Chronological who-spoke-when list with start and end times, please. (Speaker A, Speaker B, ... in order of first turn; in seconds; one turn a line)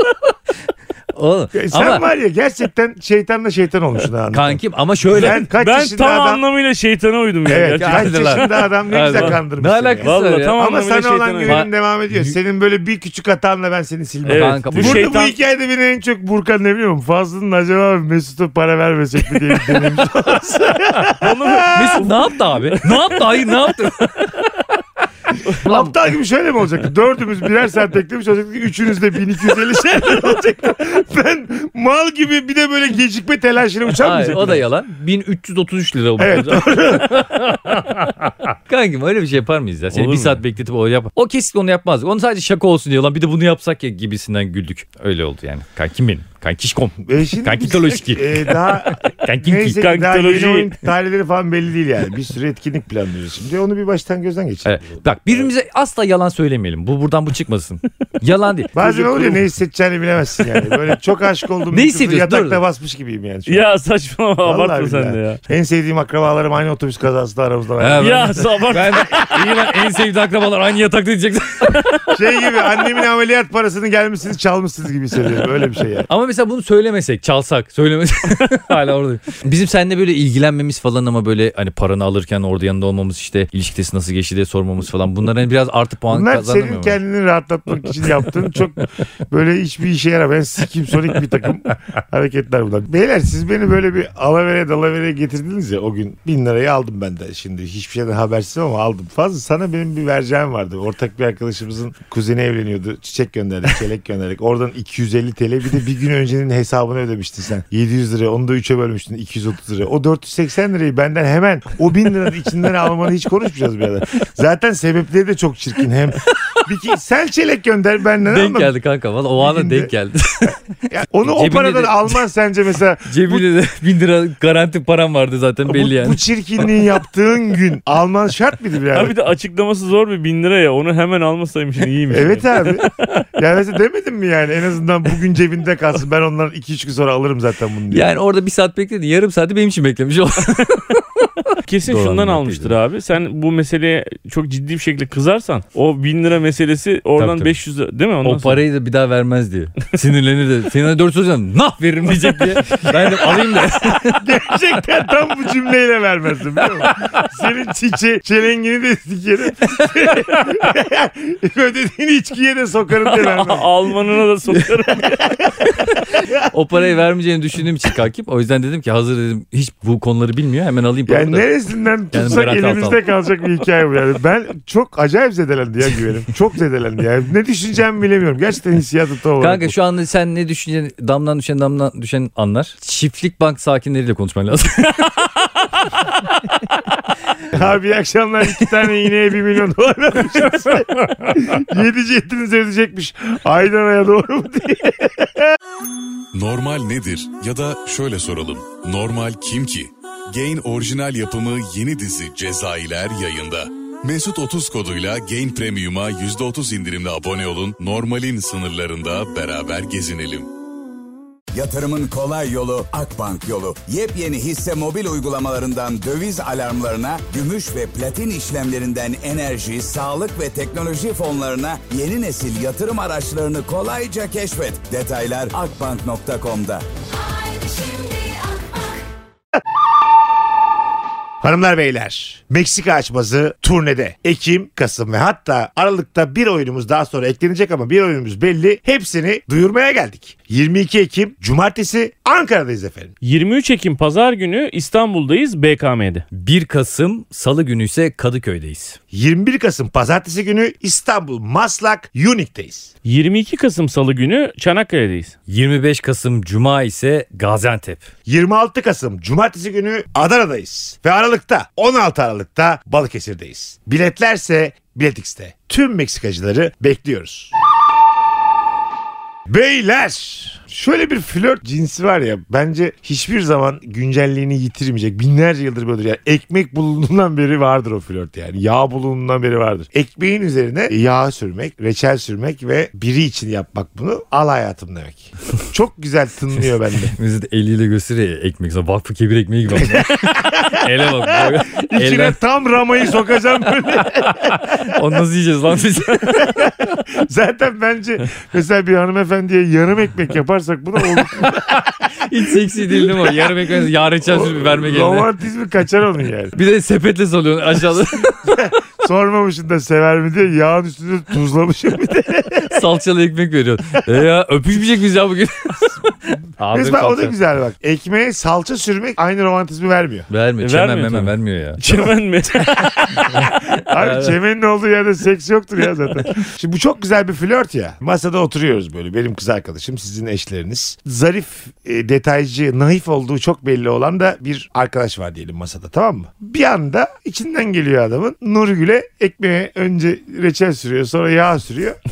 Speaker A: 1.1-2.0
Speaker B: 1.5-4.6
Speaker A: 4.3-5.5
Speaker B: 5.1-6.4
Speaker C: 5.5-9.3
Speaker B: 7.5-22.1
Speaker A: 7.8-10.6
Speaker C: 10.0-11.6
Speaker A: 11.4-12.3
Speaker C: 14.2-15.4
Speaker A: 14.3-15.1
Speaker C: 21.2-23.2
Speaker A: 21.7-24.4
Speaker B: 25.6-34.6
Speaker A: 25.6-25.9
Speaker A: 34.0-38.1
Speaker B: 36.2-38.0
Speaker A: 38.7-49.8
Speaker C: 39.9-40.4
Speaker B: 47.0-55.5
Speaker C: 49.8-50.7
Speaker A: 54.6-59.4
Speaker B: 58.7-63.7
Speaker A: 61.7-62.6
Speaker C: 63.5-65.4
Speaker B: 64.4-68.5
Speaker A: 67.8-71.9
Speaker C: 68.0-69.2
Speaker B: 72.1-76.1
Speaker A: 76.1-87.0
Speaker B: 86.1-118.7
Speaker A: 116.2-116.7
Speaker A: 118.3-120.6
Speaker B: 119.4-119.9
Speaker B: 120.9-123.4
Speaker A: 121.2-122.2
Speaker A: 123.0-126.2
Speaker B: 125.7-129.1
Speaker C: 128.9-132.8
Speaker B: 132.1-138.1
Speaker A: 137.9-141.3
Speaker C: 141.6-148.6
Speaker A: 141.8-142.7
Speaker A: 147.2-147.5
Speaker A: 148.2-154.3
Speaker B: 154.0-163.7
Speaker A: 156.8-157.1
Speaker C: 163.0-165.3
Speaker B: 165.0-166.3
Speaker A: 165.7-171.5
Speaker B: 171.1-179.7
Speaker A: 172.1-173.0
Speaker A: 179.4-185.2
Speaker B: 187.5-195.5
Speaker D: 196.3-210.5
Speaker E: 211.5-226.8
Speaker E: 227.4-228.7
Speaker B: 231.4-243.1
Speaker C: 243.2-246.2
Speaker A: 246.3-249.0
Speaker B: 249.1-252.9
Speaker C: 253.0-255.3
Speaker A: 255.5-258.0
Speaker B: 258.2-267.5
Speaker B: 269.5-287.1
Speaker A: 287.1-292.4
Speaker B: 289.8-294.9
Speaker A: 294.8-296.7
Speaker B: 296.4-303.5
Speaker A: 302.2-305.3
Speaker B: 304.2-306.6
Speaker A: 306.5-308.6
Speaker B: 308.3-312.8
Speaker A: 312.7-316.0
Speaker A: 316.6-317.4
Speaker B: 316.7-320.3
Speaker A: 320.3-321.8
Speaker C: 320.6-323.2
Speaker B: 322.7-342.0
Speaker A: 323.4-324.4